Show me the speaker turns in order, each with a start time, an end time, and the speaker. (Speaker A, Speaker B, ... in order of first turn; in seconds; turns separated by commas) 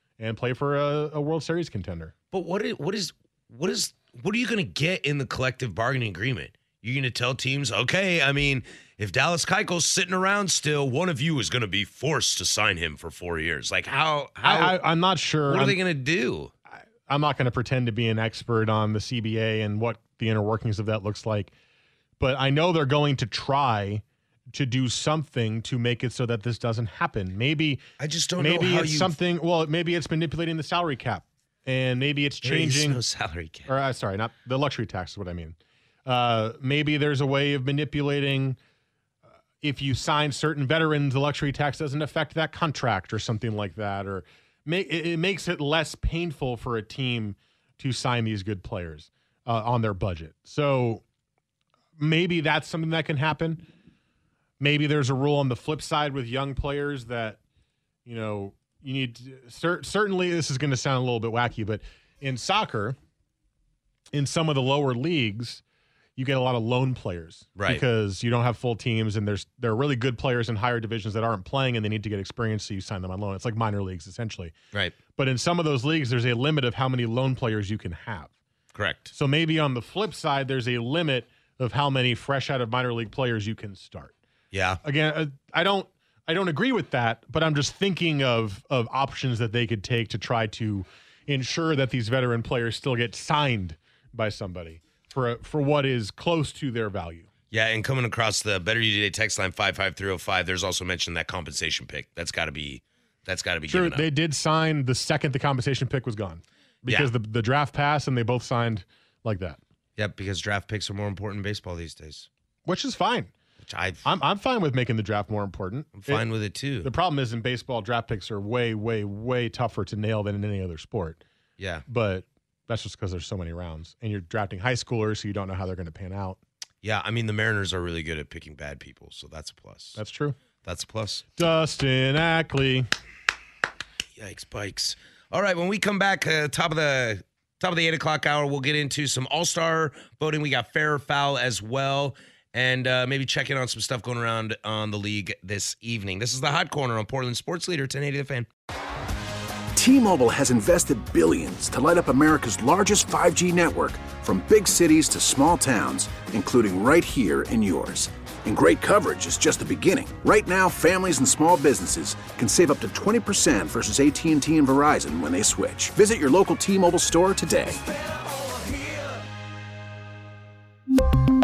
Speaker A: 0.2-2.1, Speaker B: 2.3-14.8, Speaker A: 14.4-15.8, Speaker B: 15.5-16.5, Speaker A: 17.1-21.5, Speaker A: 22.2-27.8, Speaker B: 28.0-29.1, Speaker A: 28.4-33.0, Speaker B: 32.4-33.7, Speaker A: 33.7-38.6, Speaker A: 39.6-51.0, Speaker A: 52.0-53.6, Speaker A: 54.6-57.4, Speaker A: 58.0-63.0, Speaker A: 64.1-65.6, Speaker A: 66.2-74.5, Speaker B: 67.6-67.8, Speaker A: 75.1-78.3, Speaker B: 78.8-79.1, Speaker A: 79.1-84.2, Speaker B: 84.5-84.8, Speaker A: 84.8-97.3, Speaker B: 97.5-104.1, Speaker A: 103.7-109.6, Speaker B: 106.8-107.1, Speaker B: 110.0-112.3, Speaker A: 112.7-113.3, Speaker B: 113.6-114.1, Speaker A: 114.0-116.3, Speaker B: 116.0-116.9, Speaker A: 116.8-121.2, Speaker B: 121.6-121.8, Speaker A: 121.9-126.4, Speaker B: 126.8-130.0, Speaker A: 130.0-130.4, Speaker B: 130.6-131.2, Speaker A: 131.4-132.9, Speaker B: 134.2-148.5, Speaker C: 149.7-167.8